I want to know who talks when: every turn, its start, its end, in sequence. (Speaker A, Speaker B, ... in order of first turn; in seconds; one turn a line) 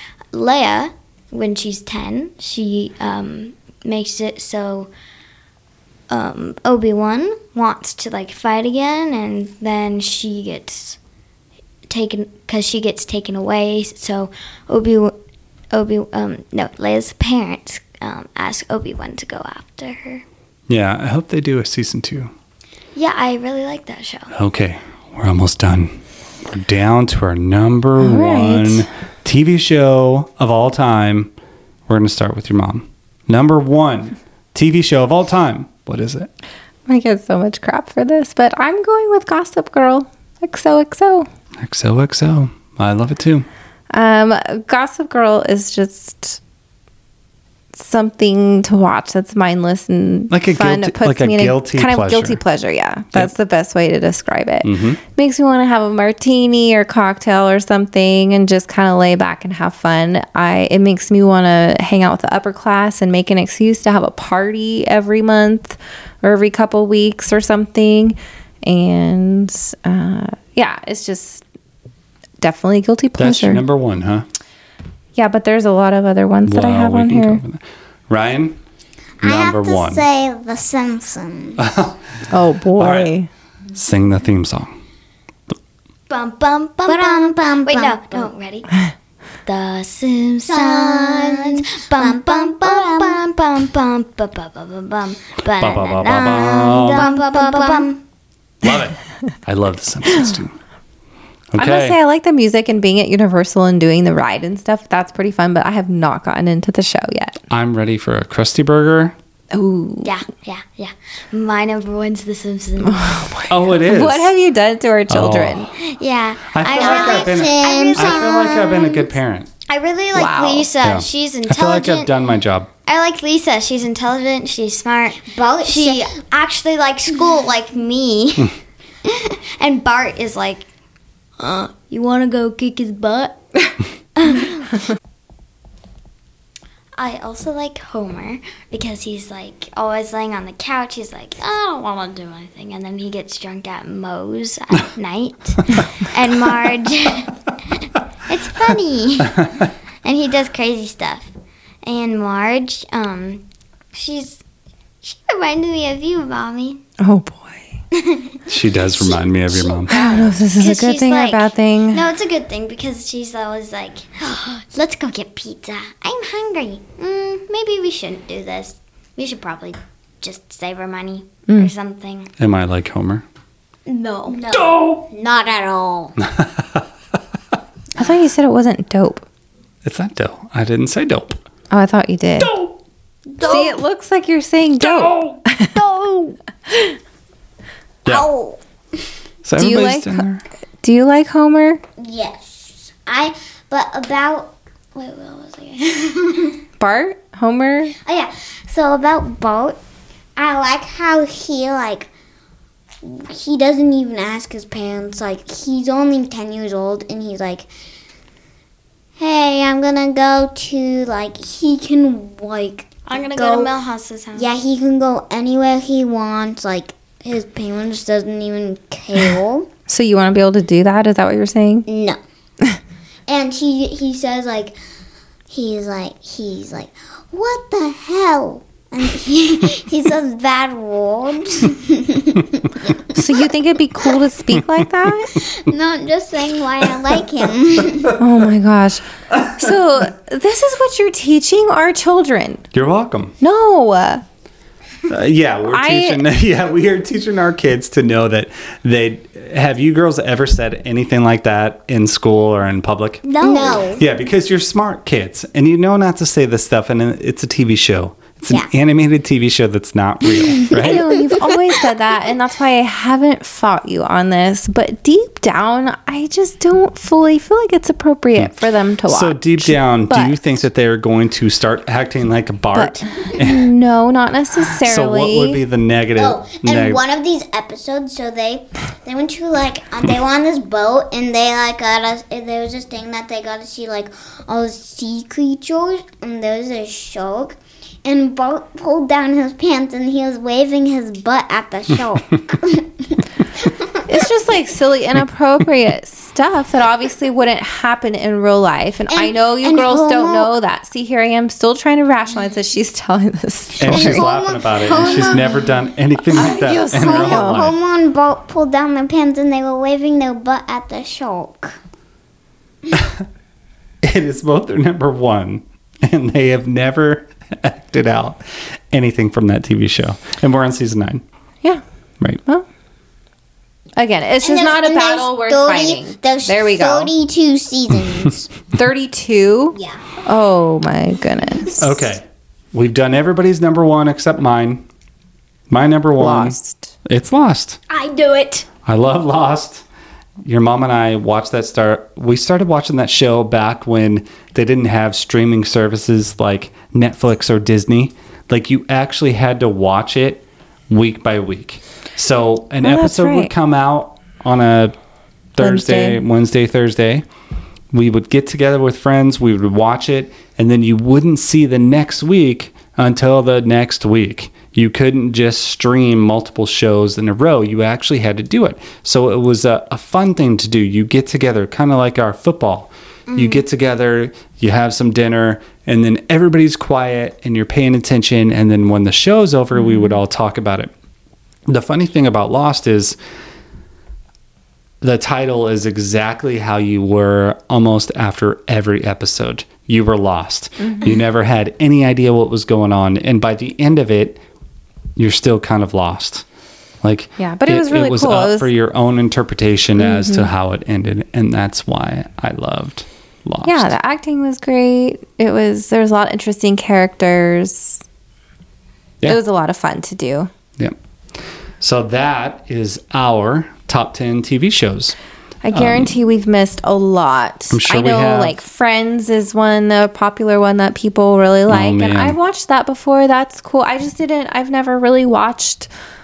Speaker A: 0.3-4.9
Speaker A: 6.1-11.0
Speaker A: 11.9-15.2
Speaker A: 15.7-20.2
Speaker B: 20.7-22.3
Speaker A: 22.9-24.3
Speaker B: 24.3-31.3
Speaker C: 28.0-28.9
Speaker B: 31.9-36.3
Speaker C: 36.9-41.3
Speaker B: 41.6-43.5
Speaker C: 43.9-46.4
Speaker C: 47.7-71.4
Speaker B: 50.3-52.4
Speaker B: 54.6-55.0
Speaker C: 72.4-73.6
Speaker B: 73.2-74.2
Speaker C: 75.2-77.4
Speaker B: 76.4-78.6
Speaker D: 79.2-81.6
Speaker B: 79.2-80.0
Speaker B: 81.6-82.0
Speaker C: 82.3-83.3
Speaker B: 82.8-83.1
Speaker B: 83.7-84.7
Speaker A: 86.1-88.7
Speaker D: 86.9-88.3
Speaker A: 89.5-98.0
Speaker D: 90.5-93.2
Speaker B: 95.6-97.1
Speaker D: 96.9-98.0
Speaker B: 98.6-100.5
Speaker B: 101.5-102.0
Speaker C: 101.5-107.4
Speaker B: 107.5-109.2
Speaker C: 109.5-110.1
Speaker A: 110.0-113.2
Speaker C: 112.8-115.7
Speaker B: 113.5-114.3
Speaker B: 115.1-115.7
Speaker A: 115.8-119.1
Speaker B: 116.5-119.5
Speaker D: 116.7-118.8
Speaker A: 119.7-122.1
Speaker C: 120.1-120.7
Speaker B: 120.8-122.7
Speaker A: 122.8-130.7
Speaker D: 125.3-126.1
Speaker A: 131.4-133.4
Speaker A: 134.2-134.8
Speaker A: 136.9-151.3
Speaker B: 149.3-149.6
Speaker A: 151.8-154.4
Speaker A: 155.0-156.8
Speaker C: 157.0-157.7
Speaker B: 158.5-159.9
Speaker A: 158.9-172.3
Speaker C: 159.9-162.0
Speaker B: 172.4-173.2
Speaker A: 173.9-174.4
Speaker D: 174.3-176.2
Speaker B: 174.5-175.0
Speaker B: 176.2-176.8
Speaker C: 178.0-179.2
Speaker B: 179.8-181.4
Speaker C: 181.7-182.5
Speaker B: 182.4-182.7
Speaker A: 183.3-183.8
Speaker C: 183.4-185.7
Speaker B: 184.8-185.4
Speaker A: 185.7-186.4
Speaker D: 188.1-188.6
Speaker B: 189.4-190.4
Speaker C: 189.6-190.2
Speaker C: 190.8-191.8
Speaker D: 192.0-194.6
Speaker A: 195.0-195.8
Speaker D: 195.1-196.6
Speaker C: 196.8-197.9
Speaker D: 198.0-199.8
Speaker D: 200.3-202.1
Speaker D: 203.0-207.7
Speaker D: 209.2-213.7
Speaker A: 213.1-214.5
Speaker D: 214.3-219.7
Speaker C: 219.9-221.8
Speaker D: 221.9-222.2
Speaker D: 223.3-224.8
Speaker D: 225.5-233.5
Speaker C: 233.1-235.3
Speaker D: 235.3-238.2
Speaker C: 238.2-242.6
Speaker B: 242.7-243.3
Speaker C: 243.4-244.2
Speaker B: 245.1-253.2
Speaker C: 245.7-246.2
Speaker A: 253.2-254.0
Speaker D: 253.4-254.0
Speaker B: 253.9-261.0
Speaker D: 260.7-261.6
Speaker C: 260.7-270.5
Speaker B: 268.4-273.7
Speaker C: 272.7-275.6
Speaker B: 274.8-277.0
Speaker D: 276.1-294.1
Speaker C: 294.1-304.3
Speaker D: 299.1-300.5
Speaker D: 303.8-305.7
Speaker B: 303.8-307.8
Speaker D: 306.3-311.8
Speaker C: 306.3-307.6
Speaker B: 313.0-313.2
Speaker B: 314.0-321.2
Speaker C: 324.0-327.1
Speaker D: 324.4-328.5
Speaker C: 328.7-332.0
Speaker B: 331.8-334.8
Speaker B: 335.7-337.8
Speaker C: 336.2-336.9
Speaker A: 337.9-338.6
Speaker B: 338.8-339.8
Speaker B: 340.4-354.9
Speaker C: 352.8-353.5
Speaker B: 355.5-357.2
Speaker C: 355.6-356.2
Speaker B: 357.9-380.9
Speaker A: 373.3-373.6
Speaker C: 379.8-380.2
Speaker B: 381.7-383.1
Speaker B: 385.0-394.4
Speaker C: 390.8-391.1
Speaker B: 395.1-396.4
Speaker B: 397.0-403.9
Speaker C: 397.4-398.7
Speaker C: 400.0-400.5
Speaker C: 403.6-408.0
Speaker C: 409.2-410.5
Speaker B: 411.8-415.1
Speaker C: 415.6-425.9
Speaker B: 415.7-416.1
Speaker B: 417.7-418.6
Speaker B: 421.7-422.4